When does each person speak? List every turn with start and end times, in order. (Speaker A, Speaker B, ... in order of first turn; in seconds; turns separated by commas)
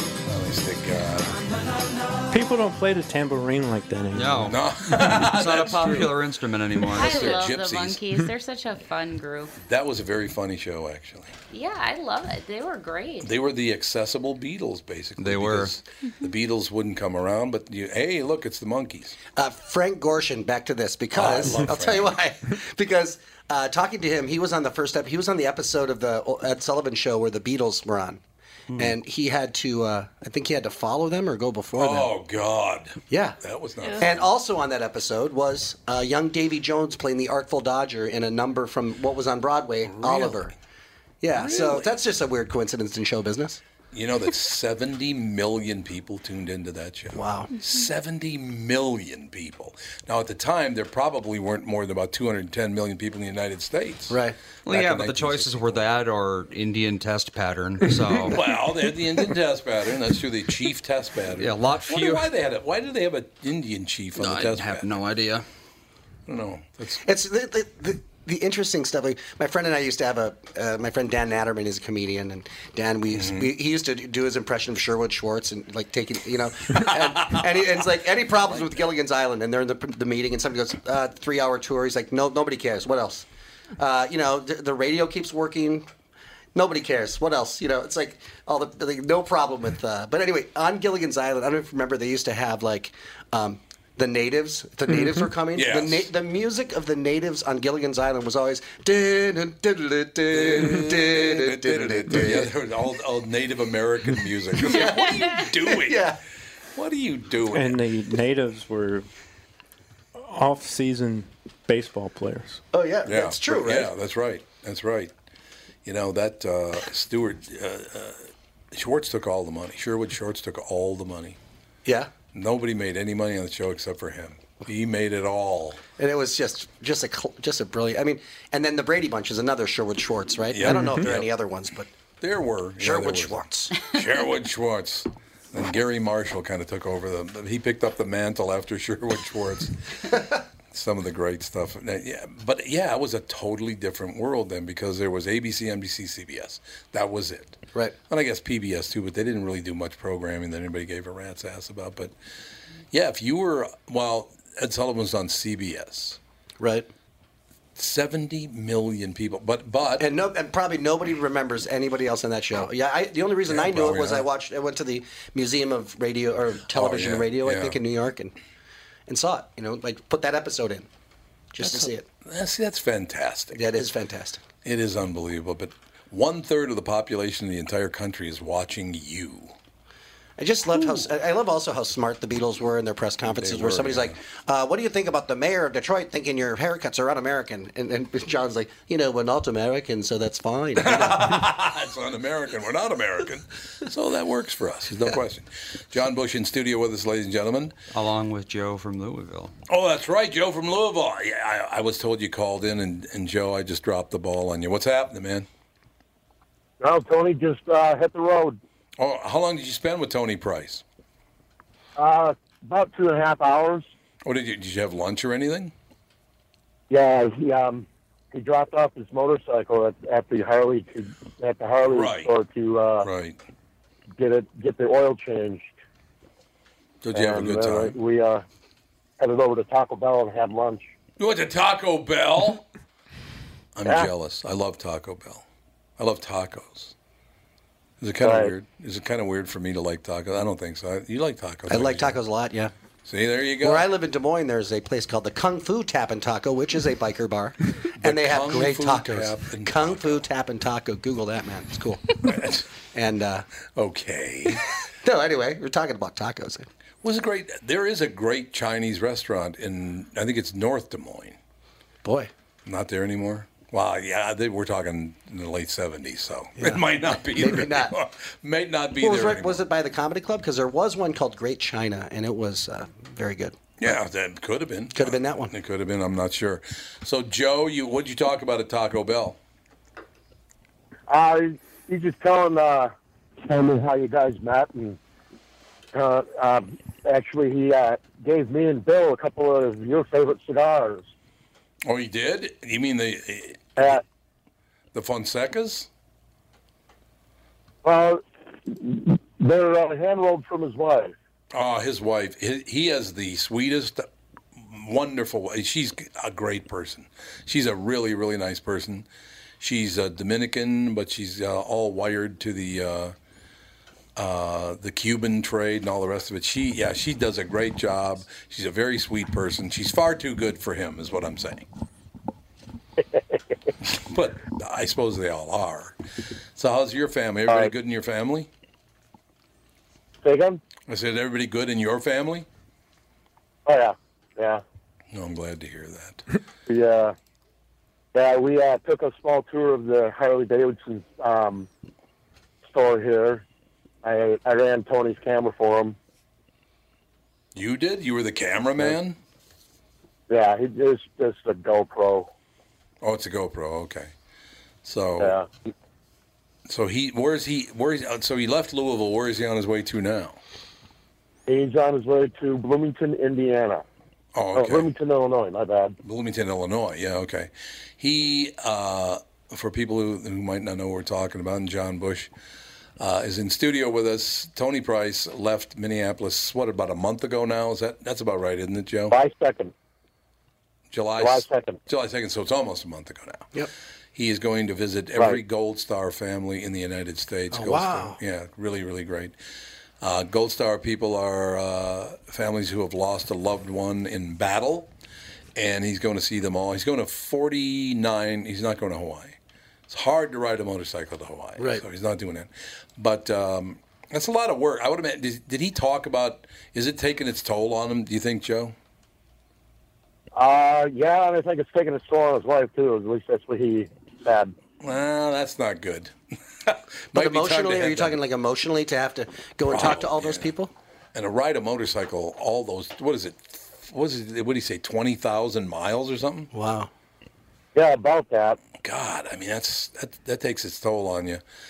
Speaker A: 0.2-1.5, Speaker B: 2.3-5.3, Speaker C: 4.1-4.6, Speaker A: 4.5-6.2, Speaker C: 5.2-7.5, Speaker A: 6.9-8.0, Speaker D: 6.9-9.5, Speaker A: 9.6-11.3, Speaker D: 11.5-13.3, Speaker A: 13.2-19.2, Speaker C: 15.2-15.7, Speaker E: 19.4-28.2, Speaker A: 21.1-22.1, Speaker E: 28.7-32.1, Speaker A: 31.7-34.2, Speaker E: 33.1-33.4, Speaker E: 34.0-40.5, Speaker A: 39.9-40.4, Speaker E: 41.2-43.6, Speaker A: 41.3-42.0, Speaker A: 43.9-55.8, Speaker E: 47.1-47.5, Speaker E: 54.1-54.4, Speaker C: 54.6-58.4, Speaker A: 58.3-64.9, Speaker C: 61.4-62.3, Speaker C: 64.2-65.5, Speaker A: 66.3-67.0, Speaker E: 67.0-83.2, Speaker A: 73.1-73.5, Speaker E: 83.8-85.9, Speaker E: 86.5-102.5, Speaker A: 95.5-96.1, Speaker A: 100.3-106.1, Speaker E: 104.6-106.2, Speaker A: 106.7-107.8, Speaker B: 107.5-109.0, Speaker B: 110.2-112.6, Speaker E: 112.7-113.9, Speaker A: 113.0-115.1, Speaker A: 115.8-121.4, Speaker E: 121.8-122.1, Speaker A: 122.3-125.8, Speaker E: 126.0-131.9, Speaker A: 130.5-131.3, Speaker A: 132.2-139.7, Speaker E: 132.8-133.8, Speaker E: 140.1-140.3, Speaker A: 140.7-152.1, Speaker A: 152.9-156.2, Speaker E: 156.6-156.9, Speaker A: 157.8-160.1, Speaker E: 160.0-168.3, Speaker A: 163.4-164.3, Speaker A: 166.7-167.8, Speaker E: 169.1-170.9, Speaker E: 171.5-172.1, Speaker A: 171.6-173.7, Speaker E: 173.5-174.4, Speaker A: 174.6-179.5, Speaker E: 180.4-191.4, Speaker A: 183.2-184.2, Speaker A: 190.8-197.7, Speaker C: 197.9-199.5, Speaker A: 199.7-205.5, Speaker F: 206.8-208.6, Speaker A: 209.0-210.8, Speaker F: 212.0-213.9, Speaker A: 214.2-215.7, Speaker F: 216.9-223.1, Speaker A: 221.8-222.3, Speaker A: 223.0-223.4, Speaker F: 224.2-225.7, Speaker A: 227.0-227.9, Speaker F: 227.1-228.4, Speaker F: 229.2-230.9, Speaker A: 231.2-232.7, Speaker A: 233.7-235.4, Speaker F: 233.8-234.1, Speaker A: 236.0-236.9, Speaker A: 238.0-242.2, Speaker F: 238.2-238.5, Speaker E: 241.7-242.7, Speaker A: 243.0-243.8, Speaker E: 243.6-252.2, Speaker A: 248.0-250.2, Speaker A: 252.2-252.7, Speaker E: 252.9-253.4, Speaker A: 253.7-254.7, Speaker E: 255.0-256.7, Speaker A: 257.0-261.4, Speaker E: 262.0-262.3, Speaker A: 262.6-269.6, Speaker E: 266.6-267.9, Speaker E: 269.0-273.6, Speaker A: 273.8-279.4, Speaker E: 274.9-275.5, Speaker F: 281.1-285.0, Speaker F: 285.9-291.1, Speaker A: 291.8-294.0, Speaker F: 293.8-294.0, Speaker A: 294.9-295.9, Speaker F: 297.8-301.1, Speaker A: 301.5-309.1, Speaker A: 309.6-313.1, Speaker A: 314.1-321.7, Speaker A: 323.8-326.0, Speaker A: 326.6-328.5, Speaker F: 330.2-330.6, Speaker A: 330.9-332.5, Speaker F: 333.6-334.6, Speaker A: 335.1-336.2, Speaker F: 336.7-337.1, Speaker F: 338.1-341.7, Speaker F: 342.6-343.4, Speaker F: 344.0-345.9, Speaker A: 347.5-349.2, Speaker F: 350.3-352.3, Speaker A: 353.0-354.1, Speaker A: 354.8-355.4, Speaker F: 355.2-355.5, Speaker A: 356.7-360.4, Speaker F: 361.5-363.8, Speaker A: 364.3-364.9, Speaker F: 364.5-365.9, Speaker A: 366.0-372.3, Speaker A: 373.0-379.2, Speaker F: 379.1-379.7, Speaker A: 380.9-383.5, Speaker F: 381.2-381.8, Speaker A: 384.1-389.3, Speaker E: 387.5-388.2, Speaker A: 390.0-394.9, Speaker A: 395.6-399.4, Speaker A: 399.9-408.7, Speaker E: 401.6-401.8, Speaker F: 410.3-414.5, Speaker A: 414.8-416.1, Speaker A: 416.6-418.2, Speaker E: 417.1-420.7, Speaker A: 419.7-420.5, Speaker A: 421.1-426.5, Speaker E: 426.5-426.9, Speaker F: 427.7-428.6, Speaker A: 428.8-431.4